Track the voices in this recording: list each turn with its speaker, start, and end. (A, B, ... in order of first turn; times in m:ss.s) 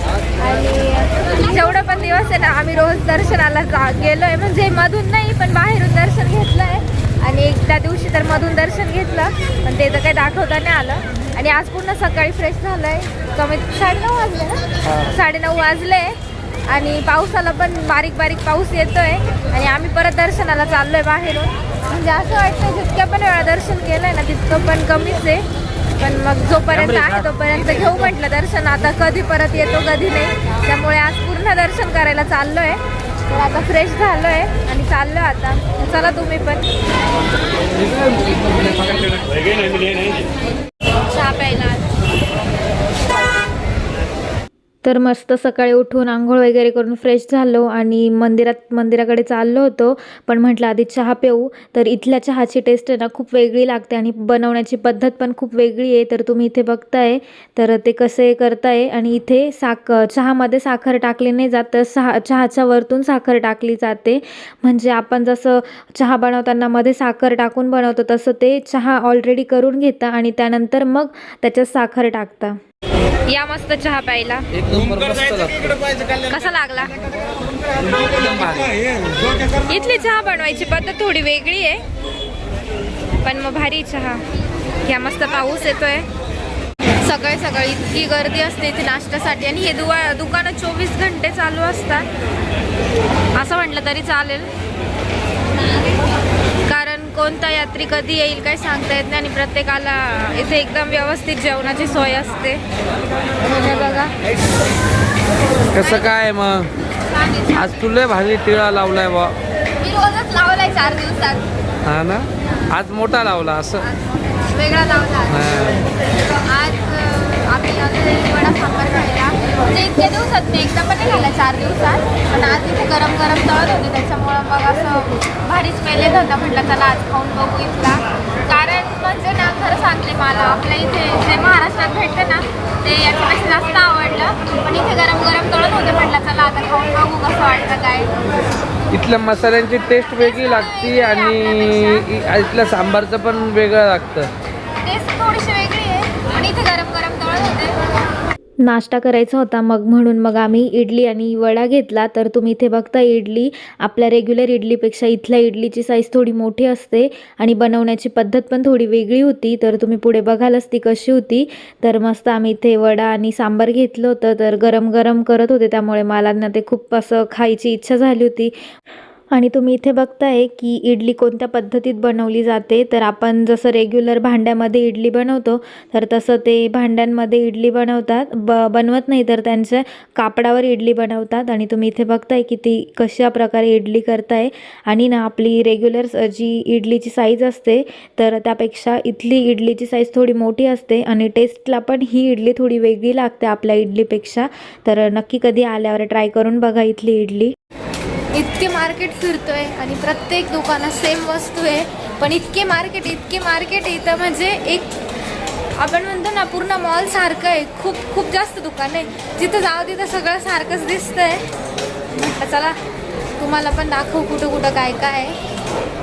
0:00.4-0:01.0 A
0:00.4-0:14.6 B
0:04.7-0:07.3 A
0:10.3-0:10.8 A
0:11.4-0:12.1 A
0:12.7-0:16.0 A
0:15.4-0:16.1 B
0:16.7-0:25.2 B
0:17.1-0:19.1 A
0:19.8-0:20.3 A
0:21.9-0:22.2 A
0:22.9-0:23.7 A
0:24.8-0:25.4 A
0:26.0-0:32.8 B
0:26.7-0:28.0 C
0:28.1-0:28.8 A
0:29.8-0:31.9 A
0:33.3-0:33.7 A
0:33.5-0:36.6 B
0:34.2-0:34.7 A
0:37.7-0:39.8 C
0:41.1-0:41.8 B
0:44.8-1:12.6 A
1:13.3-1:14.4 B
1:14.5-1:15.8 C
1:16.3-1:16.9 B
1:17.8-1:18.8 C
1:19.7-1:20.0 A
1:19.7-1:21.8 B
1:21.2-1:21.5 A
1:23.2-1:24.2 B
1:24.9-1:25.1 A
1:25.0-1:26.0 B
1:27.1-1:32.0 B
1:28.4-1:29.4 A
1:30.7-1:32.0 A
1:33.4-1:34.4 A
1:33.4-1:34.4 B
1:36.7-1:37.6 A
1:36.9-1:42.5 B
1:38.4-1:39.3 A
1:40.9-1:41.3 A
1:43.4-1:44.1 B
1:45.7-1:46.7 C
1:45.8-1:46.2 B
1:47.1-1:47.8 B
1:47.5-1:49.4 C
1:49.8-1:51.4 B
1:51.8-1:53.9 C
1:53.9-1:55.3 B
1:55.3-1:55.8 C
1:56.5-2:08.0 B
2:07.0-2:07.4 A
2:08.5-2:10.2 A
2:08.7-2:18.1 B
2:10.8-2:12.2 A
2:13.5-2:14.2 A
2:16.8-2:17.6 A
2:18.9-2:24.3 C
2:20.2-2:22.1 B
2:24.8-2:27.8 B
2:28.6-2:48.5 A
2:49.3-3:17.5 A
3:18.3-3:24.9 B
3:25.8-3:31.4 B
3:32.2-3:32.7 B
3:33.4-3:35.4 B